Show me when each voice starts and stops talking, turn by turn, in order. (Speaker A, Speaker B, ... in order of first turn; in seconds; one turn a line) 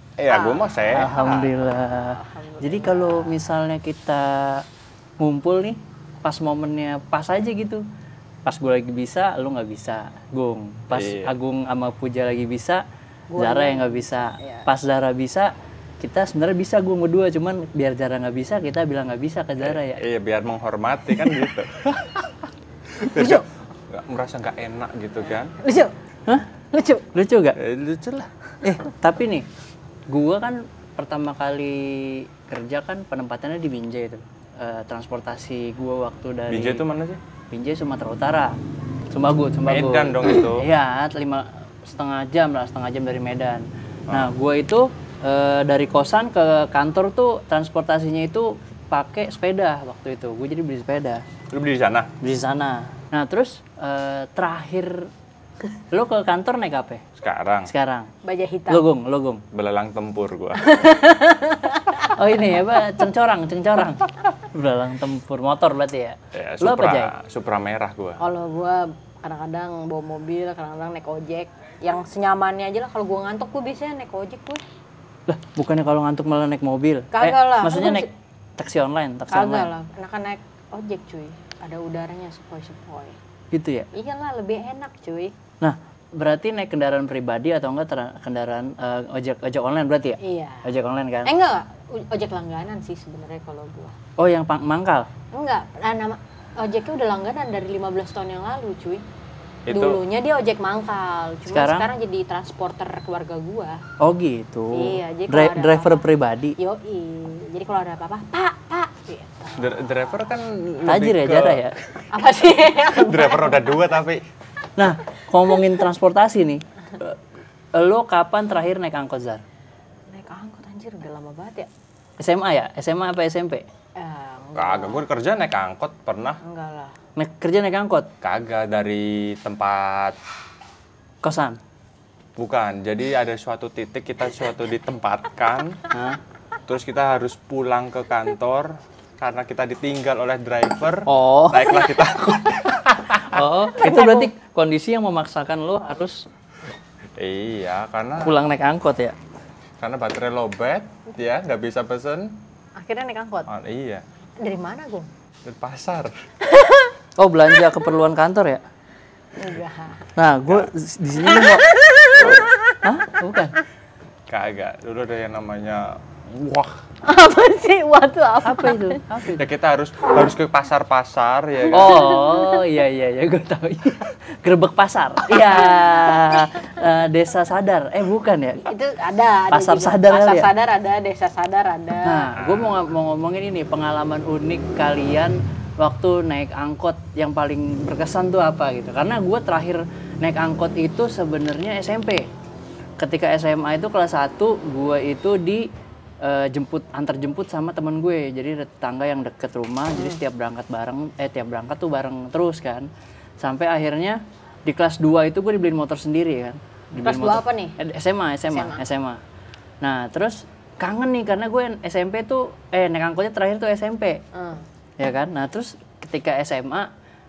Speaker A: 0.2-1.5
Speaker B: 0.3-1.5
Speaker C: 0.9-4.7
Speaker B: 2.0-3.3
Speaker C: 5.2-7.8
Speaker C: 8.4-12.8
Speaker A: 10.9-11.3
Speaker B: 13.3-14.7
Speaker C: 13.4-20.0
Speaker A: 19.6-22.3
Speaker A: 23.1-25.5
Speaker C: 23.2-23.4
Speaker B: 25.6-25.9
Speaker B: 26.7-27.0
Speaker C: 27.1-27.6
Speaker A: 27.6-28.3
Speaker C: 28.6-29.5
Speaker C: 30.1-36.8
Speaker A: 36.5-37.2
Speaker C: 37.5-38.6
Speaker C: 39.1-51.2
Speaker A: 39.7-40.7
Speaker A: 51.5-52.1
Speaker C: 52.2-55.1
Speaker C: 55.9-57.0
Speaker A: 57.2-57.7
Speaker C: 57.7-58.1
Speaker B: 58.2-58.9
Speaker C: 58.7-59.4
Speaker A: 59.5-60.6
Speaker B: 60.7-62.1
Speaker C: 62.2-67.1
Speaker A: 66.3-68.2
Speaker B: 68.2-74.6
Speaker C: 75.3-78.1
Speaker B: 77.1-78.1
Speaker C: 78.6-79.7
Speaker B: 79.3-83.2
Speaker C: 83.5-83.9
Speaker B: 83.9-85.3
Speaker C: 85.6-91.3
Speaker B: 90.2-90.7
Speaker B: 91.2-93.9
Speaker C: 94.2-95.1
Speaker B: 95.3-99.0
Speaker A: 99.7-100.0
Speaker B: 99.7-103.8
Speaker C: 101.5-101.9
Speaker C: 104.0-106.5
Speaker B: 104.7-106.0
Speaker B: 106.6-109.7
Speaker A: 109.6-111.7
Speaker C: 110.8-111.7
Speaker B: 112.1-113.8
Speaker A: 112.9-114.2
Speaker C: 114.8-117.2
Speaker C: 117.8-119.4
Speaker B: 120.1-121.7
Speaker C: 122.2-123.7
Speaker B: 124.0-125.0
Speaker A: 124.5-126.4
Speaker B: 126.4-126.9
Speaker C: 127.2-128.1
Speaker A: 128.2-130.2
Speaker C: 131.2-131.6
Speaker A: 132.4-135.8
Speaker C: 135.9-136.2
Speaker A: 136.7-143.4
Speaker C: 141.1-142.3
Speaker C: 143.1-146.2
Speaker B: 143.8-144.3
Speaker A: 147.2-148.4
Speaker C: 148.2-149.2
Speaker A: 149.8-152.3
Speaker B: 152.8-153.5
Speaker A: 153.5-154.0
Speaker B: 154.4-155.1
Speaker A: 155.4-156.1
Speaker B: 156.5-156.9
Speaker C: 157.2-158.6
Speaker B: 159.4-160.1
Speaker C: 160.2-161.7
Speaker B: 161.2-162.8
Speaker C: 162.8-163.6
Speaker A: 164.3-166.7
Speaker B: 167.1-169.0
Speaker C: 168.4-169.4
Speaker A: 169.4-172.1
Speaker C: 171.7-178.7
Speaker B: 172.3-172.6
Speaker B: 175.4-175.9
Speaker B: 178.7-182.3
Speaker C: 179.5-180.5
Speaker C: 182.0-192.2
Speaker A: 182.3-182.8
Speaker C: 193.0-195.7
Speaker C: 196.2-202.9
Speaker B: 199.9-200.2
Speaker C: 203.4-209.2
Speaker B: 207.0-207.8
Speaker B: 208.5-208.8
Speaker C: 209.8-214.2
Speaker B: 214.3-214.6
Speaker C: 215.0-216.9